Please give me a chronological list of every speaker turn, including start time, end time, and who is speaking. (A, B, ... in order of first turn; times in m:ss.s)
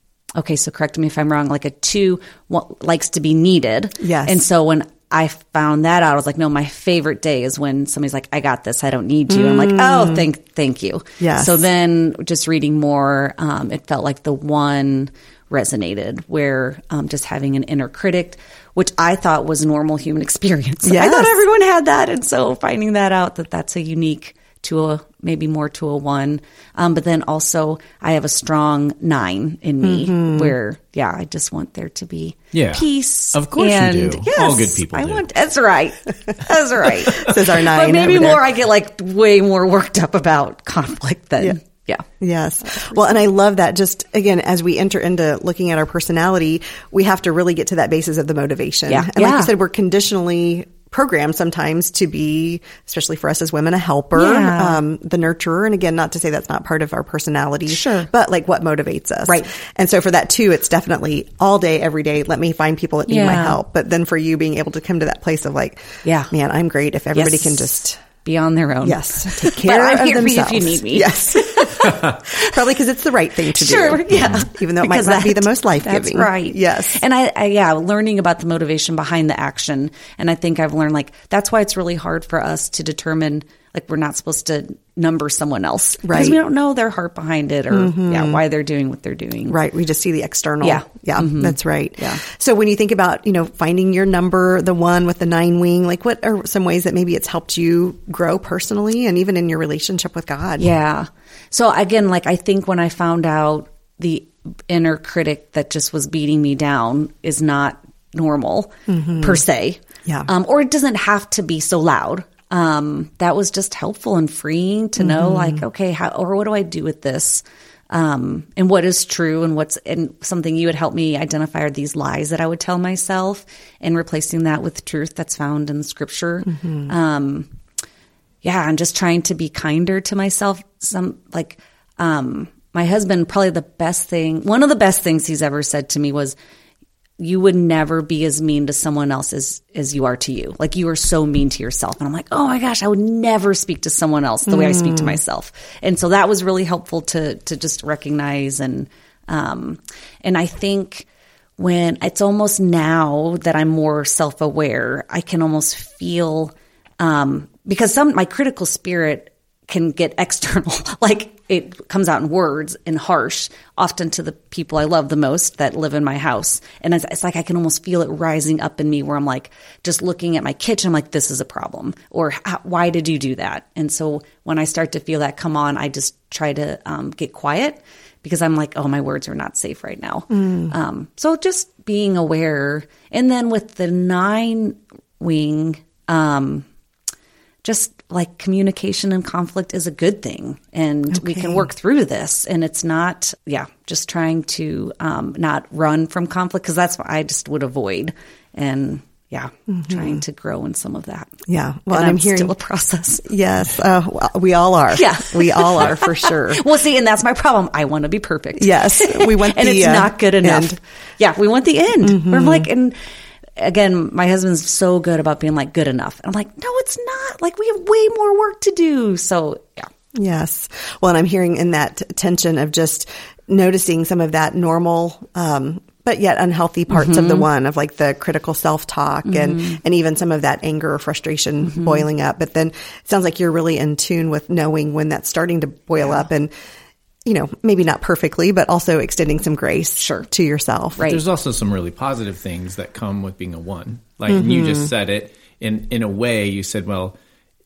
0:00.4-0:42.0 A
0:04.0-0:04.4 B
0:09.3-0:10.2 B
0:11.2-0:11.6 B
0:20.8-0:21.4 B
0:29.8-0:30.5 B
0:32.5-0:35.2 C
0:36.8-0:38.4 B
0:42.2-1:08.0 B
0:48.9-0:49.5 A
0:54.1-0:54.8 A
0:57.7-0:58.1 A
1:03.1-1:03.6 A
1:06.0-1:06.3 A
1:07.1-1:12.5 A
1:08.8-1:17.0 B
1:13.5-1:29.6 A
1:14.1-1:14.4 C
1:26.0-1:26.4 B
1:27.7-1:28.4 B
1:29.5-1:40.7 B
1:30.6-1:32.2 A
1:40.6-2:07.5 A
1:48.9-1:49.4 B
1:55.0-1:55.6 B
2:08.4-2:16.4 A
2:17.2-2:31.0 A
2:24.5-2:25.2 B
2:31.6-3:06.6 A
3:00.3-3:00.7 B
3:07.6-3:21.3 A
3:11.1-3:11.6 B
3:19.7-3:20.2 B
3:21.5-3:22.5 B
3:21.9-3:23.2 A
3:23.2-3:26.6 B
3:24.9-3:33.0 A
3:28.6-3:30.8 B
3:32.0-3:32.7 B
3:33.6-3:39.9 A
3:40.1-3:56.5 B
3:46.9-3:47.4 A
3:49.2-3:49.8 A
3:51.7-3:52.0 A
3:57.2-4:01.1 B
4:00.0-4:00.2 A
4:01.0-4:07.1 C
4:04.3-4:04.9 B